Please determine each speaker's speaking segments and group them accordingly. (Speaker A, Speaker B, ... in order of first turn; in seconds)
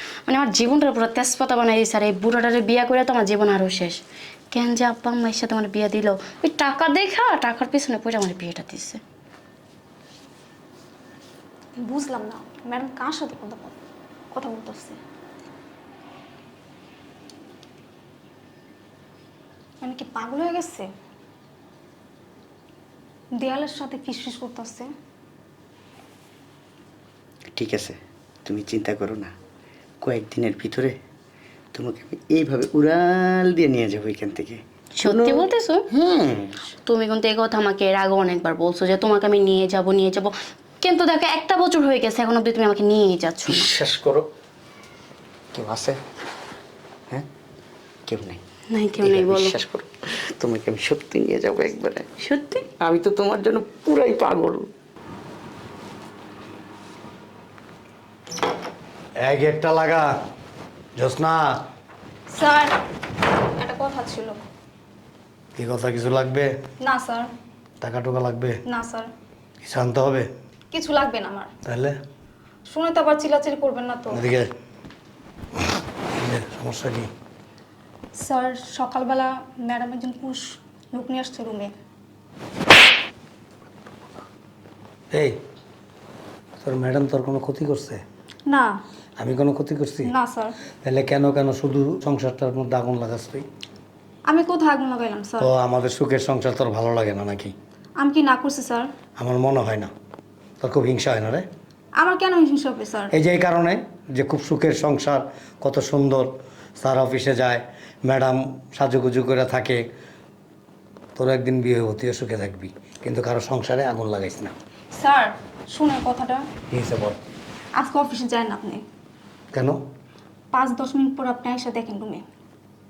Speaker A: 0.2-9.0, 35.0-35.8, 36.9-43.7, 48.7-49.5, 52.2-52.6
Speaker B: 11.8-13.7, 14.3-15.0, 19.8-20.9, 23.3-24.9, 62.3-62.8, 63.6-64.4, 66.8-67.3, 68.7-69.1, 70.7-71.5, 72.7-74.2, 78.2-81.7, 88.5-88.8, 90.0-90.5, 94.3-95.5, 98.0-98.9, 102.0-103.1, 114.9-116.4, 117.8-118.8, 120.5-122.2
Speaker C: 27.5-29.3, 30.0-31.0, 31.7-36.6, 43.5-44.3, 45.5-46.0, 48.1-48.4, 49.0-52.1, 52.8-54.7
Speaker D: 59.2-60.1, 61.0-61.6, 65.5-66.5, 67.8-68.6, 69.6-70.3, 71.6-72.0, 74.1-74.5, 76.2-77.1, 85.1-85.4, 86.6-88.0, 89.2-90.1, 90.8-93.4, 95.4-97.5, 99.2-99.9, 100.6-101.5, 103.1-109.8, 111.2-114.5, 116.7-117.2, 119.5-119.8